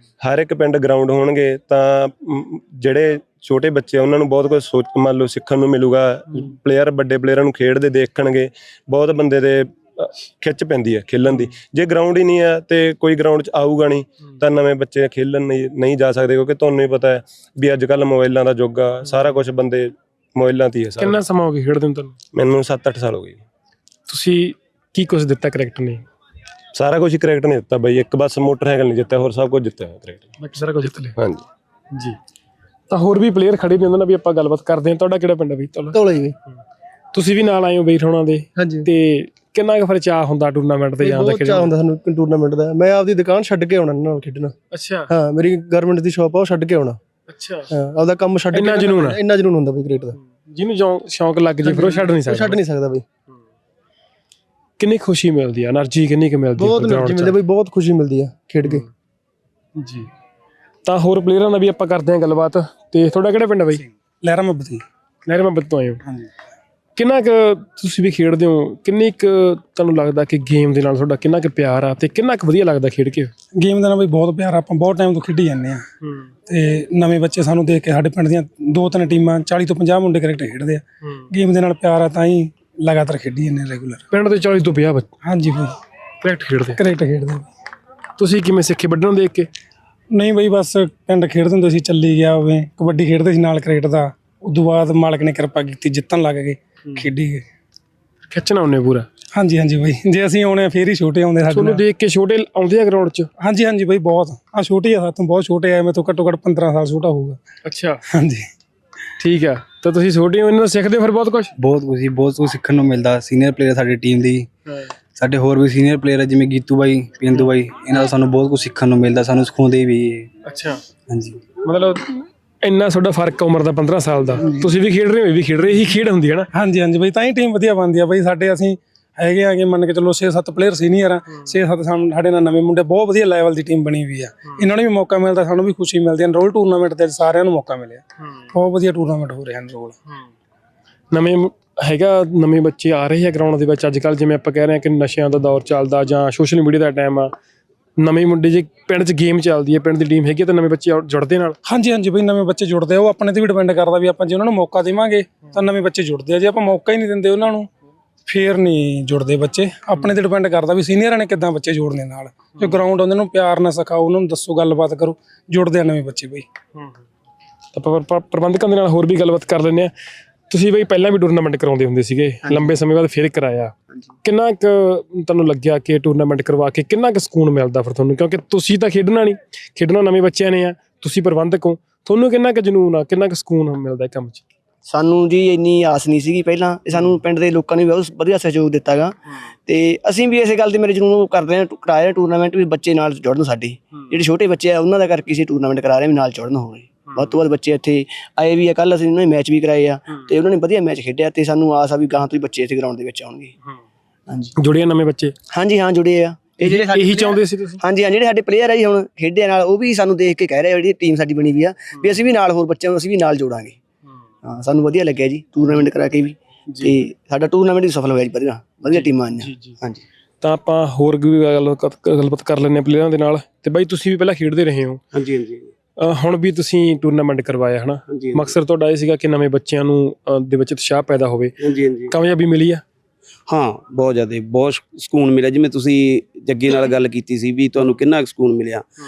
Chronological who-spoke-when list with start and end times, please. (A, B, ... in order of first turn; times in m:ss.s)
0:00.2-0:21.2 A
0:21.0-0:22.2 B
0:22.3-0:23.4 A
0:24.1-0:26.0 B
0:26.7-0:30.3 A
0:30.4-0:31.1 B
0:31.2-0:31.4 A
0:32.9-0:36.0 B
0:35.9-0:36.4 C
0:37.1-0:41.8 B
0:38.6-0:38.9 C
0:41.0-0:44.6 C
0:44.7-0:45.1 B
0:45.1-0:47.0 C
0:47.3-0:47.7 B
0:47.7-0:50.2 C
0:48.5-0:49.2 B
0:50.2-0:52.6 B
0:51.6-0:53.0 C
0:54.8-0:57.4 B
0:56.6-0:58.8 C
0:59.8-1:00.1 B
1:00.8-1:03.8 B
1:04.2-1:04.8 D
1:05.3-1:06.0 B
1:07.0-1:13.3 B
1:13.6-1:15.8 D
1:16.0-1:16.3 B
1:16.5-1:24.0 D
1:24.1-1:25.1 B
1:25.2-1:25.7 D
1:26.2-1:26.8 B
1:26.8-1:27.5 D
1:28.2-1:29.5 B
1:30.1-1:37.4 D
1:38.3-1:39.0 B
1:39.3-1:41.8 D
1:41.5-1:43.3 B
1:43.4-1:47.4 D
1:47.6-1:48.0 B
1:48.1-1:48.5 D
1:49.2-1:51.5 B
1:51.6-1:54.5 E
1:55.1-2:00.3 E
2:00.5-2:00.8 B
2:01.1-2:01.4 E
2:01.6-2:02.0 B
2:02.6-2:06.5 B
2:04.4-2:04.7 D
2:06.5-2:20.0 D
2:21.1-2:27.3 B
2:28.0-2:31.6 B
2:31.6-2:37.7 D
2:38.2-2:46.5 D
2:42.6-2:42.8 B
2:46.8-2:47.0 B
2:47.7-2:49.9 B
2:50.5-3:04.4 B
3:04.9-3:23.5 F
3:17.1-3:17.4 B
3:24.3-3:24.5 F
3:24.6-3:25.3 B
3:25.5-3:33.8 F
3:26.6-3:27.8 B
3:34.4-3:40.0 F
3:38.9-3:39.8 B
3:40.4-3:45.0 B
3:45.1-3:45.7 G
3:46.0-3:51.6 B
3:48.1-3:48.5 G
3:51.6-3:52.1 G
3:52.1-3:52.8 B
3:53.5-3:58.9 G